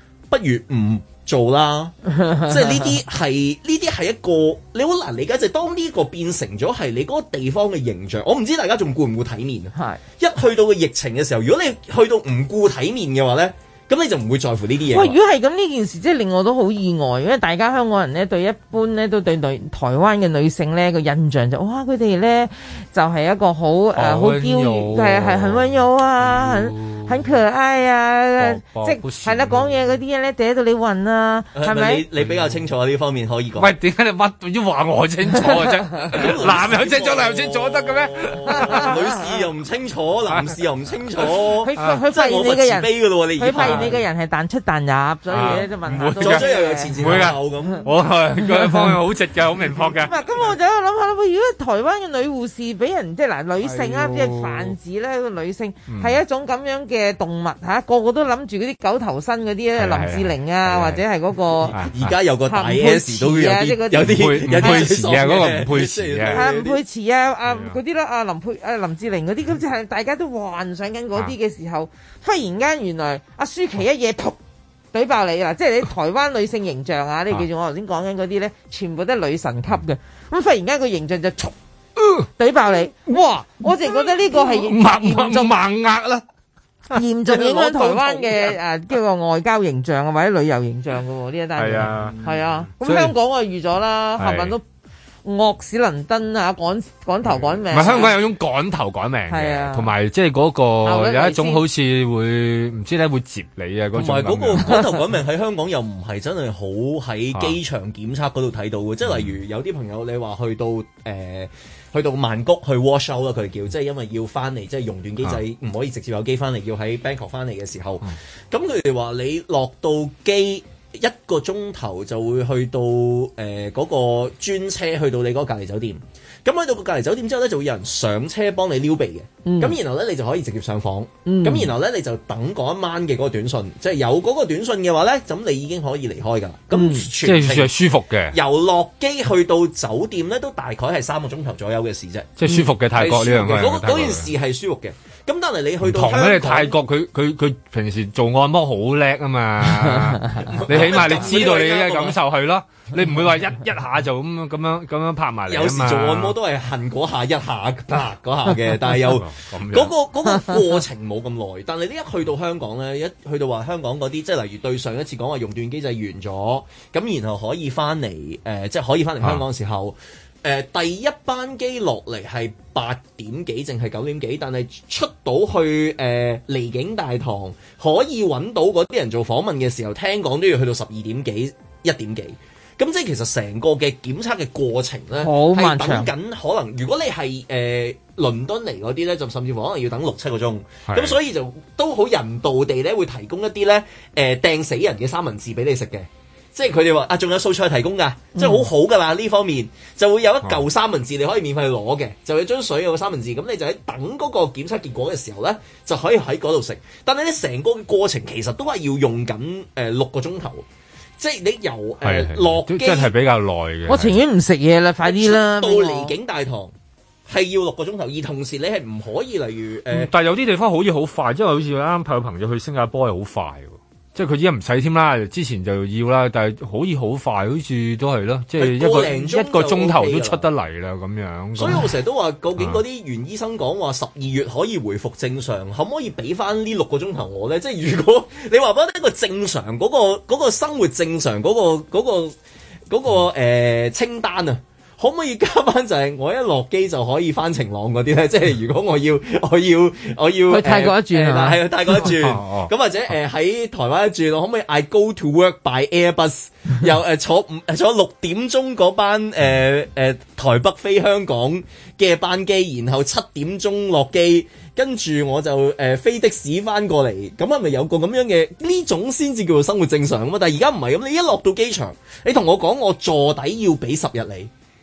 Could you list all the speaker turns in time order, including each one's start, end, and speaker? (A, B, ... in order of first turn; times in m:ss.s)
0:00.3-0:15.2 A
0:02.2-0:02.9 B
0:14.9-0:32.0 B
0:23.9-0:27.3 C
0:28.4-0:29.7 C
0:31.5-0:33.7 A
0:33.6-0:38.9 C
0:36.1-0:44.0 A
0:38.5-0:39.4 B
0:40.3-0:40.6 C
0:41.6-0:47.8 B
0:43.6-0:43.9 C
0:45.3-0:50.5 C
0:45.3-0:47.9 A
0:48.7-0:48.9 B
0:50.0-1:01.7 B
0:53.6-0:54.8 C
0:55.9-0:56.2 C
0:59.7-1:01.0 C
1:01.6-1:06.8 A
1:01.7-1:02.1 C
1:02.5-1:04.9 B
1:04.0-1:06.5 C
1:06.3-1:14.4 B
1:07.5-1:07.8 C
1:14.9-1:21.5 B
1:22.0-1:22.3 C
1:22.4-1:25.5 B
1:23.6-1:26.2 C
1:26.9-1:28.6 C
1:26.9-1:34.6 B
1:31.6-1:33.1 C
1:34.2-1:34.5 C
1:35.2-1:38.1 B
1:37.7-1:44.8 C
1:37.7-1:38.0 A
1:39.3-1:39.9 B
1:40.8-1:41.6 B
1:43.9-2:17.7 A
1:49.0-1:49.4 C
2:09.4-2:09.7 B
2:11.2-2:11.7 B
2:16.7-2:17.1 B
2:17.2-2:18.4 C
2:18.3-2:22.4 A
2:22.4-2:24.3 C
2:22.9-2:26.8 A
2:25.8-2:36.3 C
2:29.9-2:30.4 B
2:30.4-2:32.2 A
2:35.5-3:30.6 A
2:39.1-2:39.9 C
3:05.2-3:06.1 B
3:10.9-3:11.2 C
3:18.3-3:18.7 B
3:31.2-3:33.1 A
3:32.0-3:34.2 C
3:33.9-3:36.1 B
3:35.0-3:36.7 A
3:37.3-3:40.1 A
3:39.9-3:51.8 C
3:48.6-3:50.5 A
3:51.6-4:02.4 A
3:52.6-3:52.8 C
4:02.9-4:34.5 A
4:10.5-4:12.0 B
4:12.0-4:12.7 C